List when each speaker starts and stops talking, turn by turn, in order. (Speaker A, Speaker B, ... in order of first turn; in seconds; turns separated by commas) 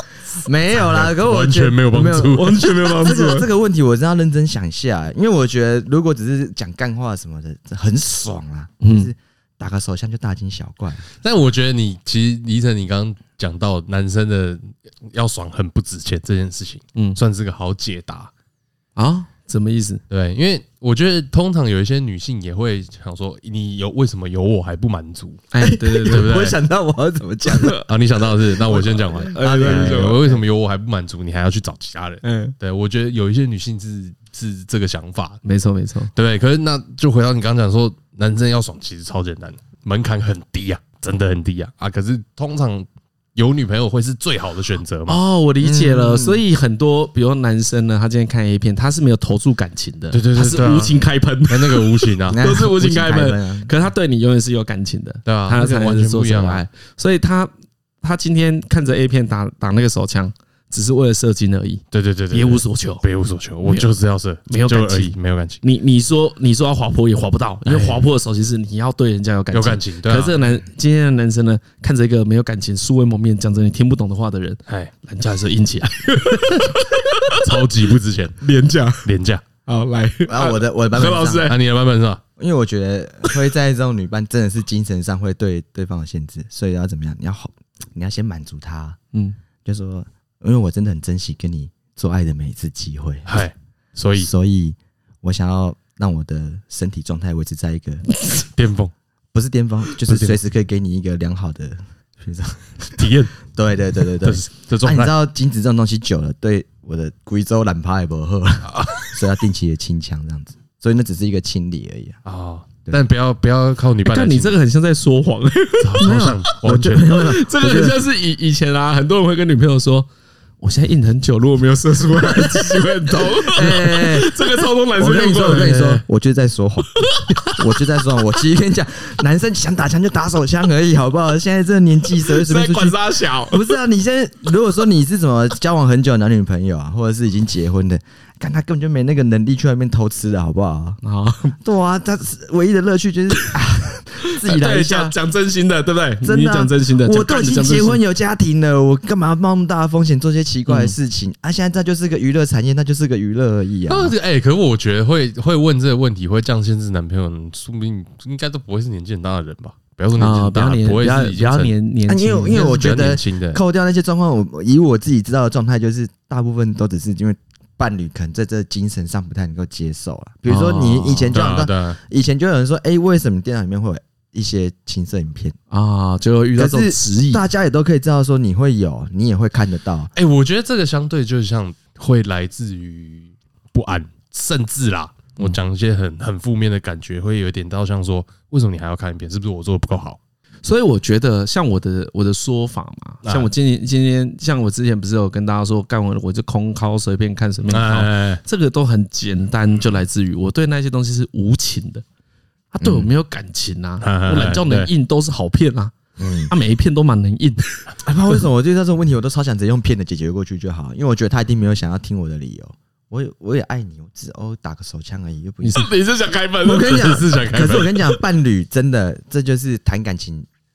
Speaker A: 0.4-11.1, Speaker B: 0.7-2.6, Speaker C: 2.2-3.5, Speaker C: 8.8-9.1, Speaker B: 11.2-18.3, Speaker C: 18.9-20.0, Speaker B: 20.1-25.5, Speaker C: 25.5-26.3, Speaker A: 25.6-27.8, Speaker B: 26.0-26.6, Speaker C: 27.6-27.9, Speaker B: 27.9-35.4, Speaker A: 28.6-30.4, Speaker C: 29.3-30.3, Speaker C: 32.2-32.5, Speaker C: 35.4-36.1, Speaker B: 36.1-45.2, Speaker C: 45.1-57.5, Speaker A: 45.6-46.4, Speaker B: 50.1-52.4, Speaker A: 52.3-53.7, Speaker B: 55.3-56.6, Speaker C: 58.0-63.0, Speaker B: 61.9-65.6, Speaker C: 64.5-77.5, Speaker B: 67.7-68.1, Speaker B: 69.5-70.5, Speaker B: 76.2-76.7, Speaker B: 77.2-78.4, Speaker C: 78.4-79.1, Speaker B: 79.0-79.4, Speaker C: 79.7-81.5, Speaker A: 80.3-81.5, Speaker B: 81.5-82.2, Speaker A: 82.4-89.0, Speaker A: 89.6-93.3, Speaker B: 93.3-94.3, Speaker A: 94.1-98.0, Speaker B: 98.5-98.9, Speaker A: 99.3-112.2, Speaker B: 100.0-100.4, Speaker B: 103.0-103.4, Speaker B: 104.2-105.1, Speaker B: 108.7-109.1, Speaker B: 112.2-114.5, Speaker C: 114.0-116.2, Speaker B: 115.8-117.2, Speaker A: 116.0-118.0, Speaker C: 117.1-120.1, Speaker C: 120.6-126.0, Speaker A: 122.4-122.7, Speaker A: 123.2-126.9, Speaker C: 127.1-127.5, Speaker A: 127.4-141.0, Speaker C: 132.2-133.7, Speaker C: 141.0-141.6, Speaker A: 141.6-145.1, Speaker C: 144.4-148.0, Speaker A: 146.2-154.1, Speaker C: 150.7-150.9, Speaker B: 153.9-161.7, Speaker C: 160.2-162.8, Speaker A: 162.1-175.6, Speaker B: 162.5-163.6, Speaker C: 170.5-171.4, Speaker B: 171.3-172.0, Speaker C: 175.7-177.4, Speaker A: 176.6-180.1, Speaker B: 180.1-190.2, Speaker C: 190.6-202.0, Speaker B: 193.2-193.5, Speaker B: 197.7-198.4, Speaker C: 202.7-205.9, Speaker A: 202.8-203.1, Speaker B: 204.0-204.9, Speaker A: 206.2-206.5, Speaker C: 206.5-207.7, Speaker A: 208.0-215.9, Speaker C: 215.6-217.1, Speaker A: 216.6-220.5, Speaker B: 216.8-218.1